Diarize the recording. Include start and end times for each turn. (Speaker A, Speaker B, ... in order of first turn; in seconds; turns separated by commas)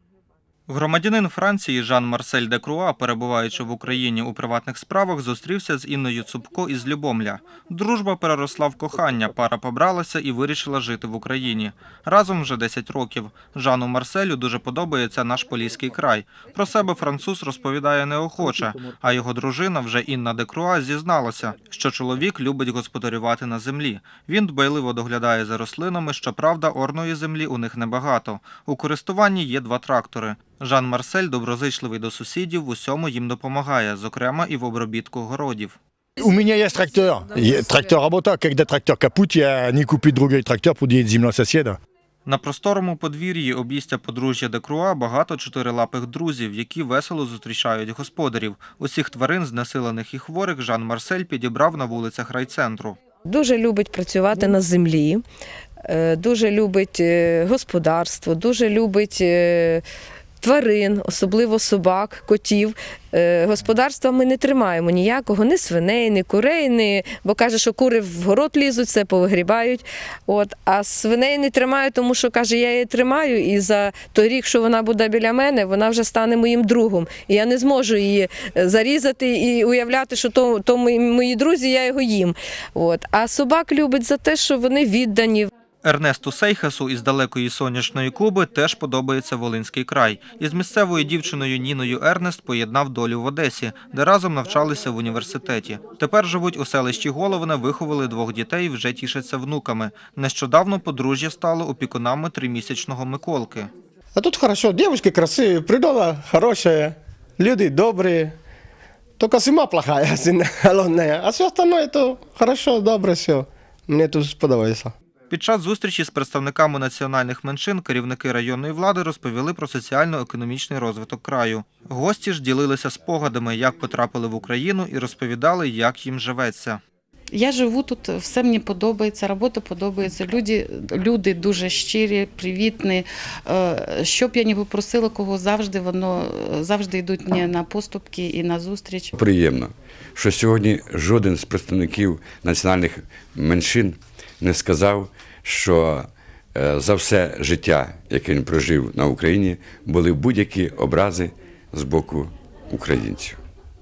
Speaker A: 0.7-35.8, Speaker B: 36.2-41.8, Speaker A: 42.3-53.0, Speaker C: 53.3-55.2, Speaker C: 55.9-59.8, Speaker C: 60.4-85.5, Speaker A: 85.8-103.7, Speaker D: 104.2-108.4, Speaker D: 109.2-114.9, Speaker A: 115.3-126.8, Speaker E: 127.3-139.2, Speaker F: 139.2-153.4